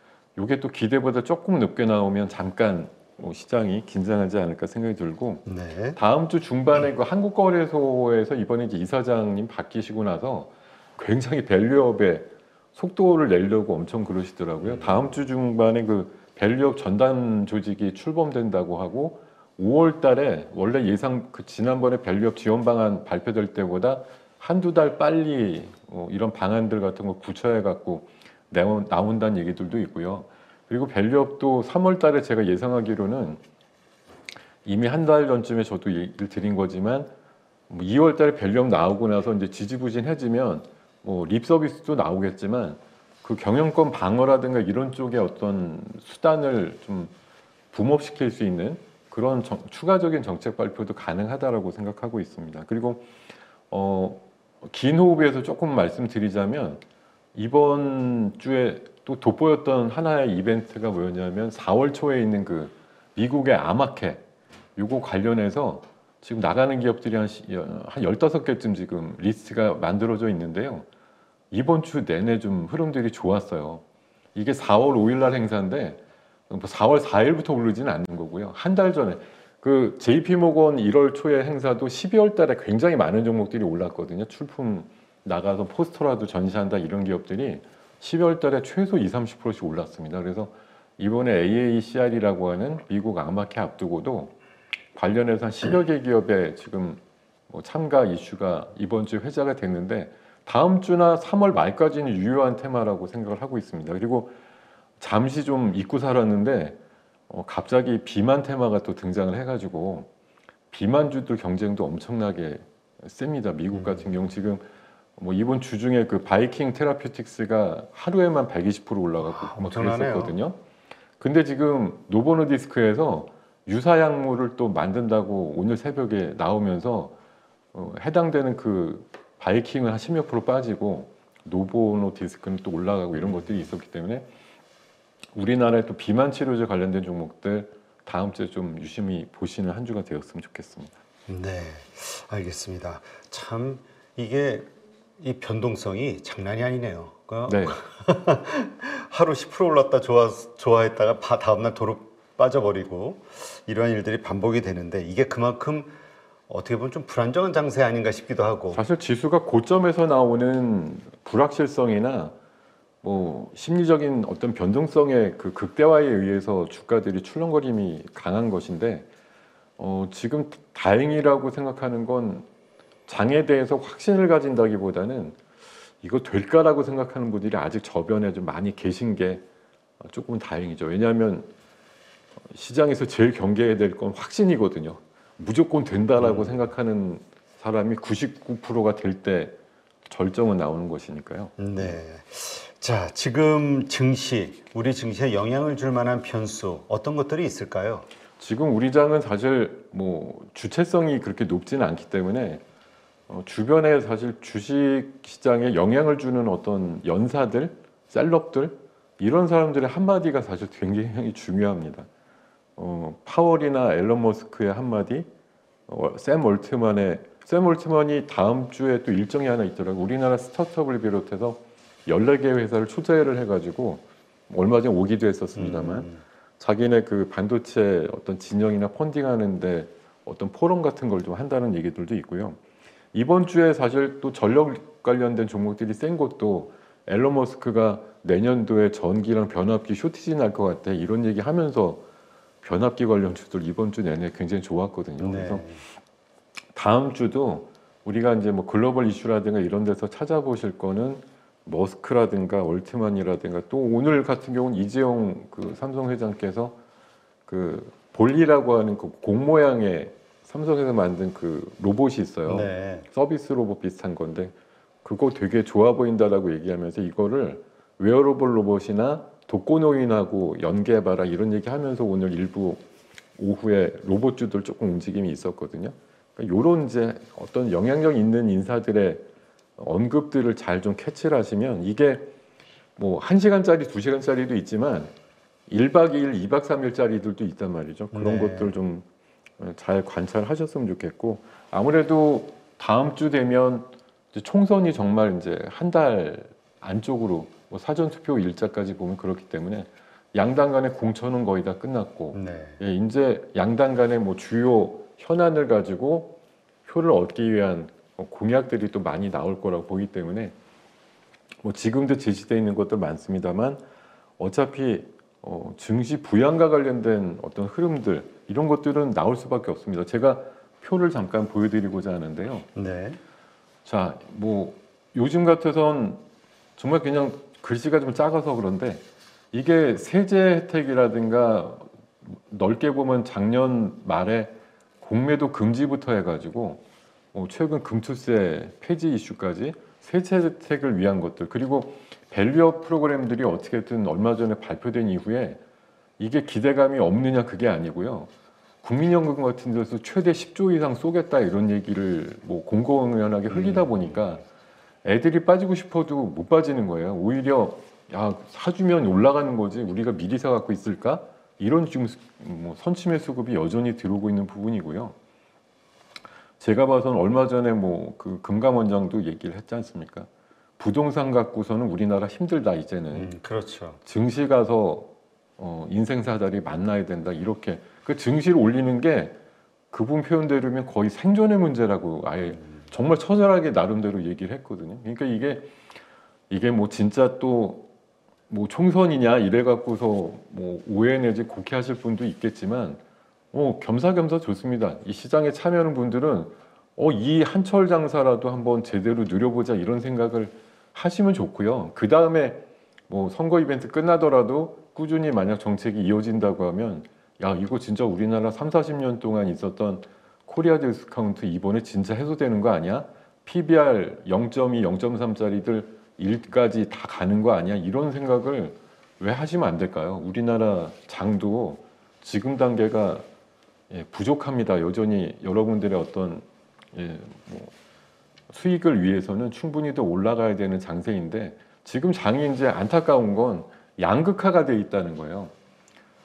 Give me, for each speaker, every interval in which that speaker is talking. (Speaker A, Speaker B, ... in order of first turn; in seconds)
Speaker A: 0.3-33.4, 34.6-37.1, 37.7-47.1, 47.7-53.1, 53.7-56.8, 57.3-64.2, 64.8-70.8, 71.5-73.8, 74.3-94.3, 94.9-104.3, 105.0-106.8, 107.3-110.1, 110.7-114.6, 115.2-120.6, 121.2-127.1, 127.7-134.3, 135.3-140.9, 147.5-147.8, 158.7-162.3, 163.0-169.1, 169.8-172.4, 173.1-175.4, 176.0-179.4, 180.0-181.5, 182.5-189.6, 190.1-192.0, 198.4-202.6, 203.3-212.1, 212.8-215.3, 215.9-232.6, 233.1-242.0, 242.6-245.6, 246.7-256.8, 257.5-272.8, 273.4-279.2, 279.8-282.3, 283.0-285.1, 285.7-289.0, 289.6-310.5, 311.6-313.8, 314.4-322.7, 323.8-326.2, 326.8-336.8, 337.3-345.6, 346.2-348.3, 348.8-354.4, 355.0-365.1, 366.6-370.3, 370.8-373.3, 374.0-379.3, 379.9-385.7, 386.5-387.9, 388.5-393.0, 393.5-423.2, 423.9-427.7, 428.5-435.5
Speaker B: 5.5-6.0, 14.6-15.2, 113.7-114.2, 119.2-120.3, 133.2-133.7, 141.3-155.9, 156.5-158.8, 186.2-186.6, 191.6-198.1, 225.6-226.2, 245.2-245.8, 262.4-263.1, 288.1-288.8, 302.3-302.8, 322.7-323.2, 353.5-354.3, 373.1-374.0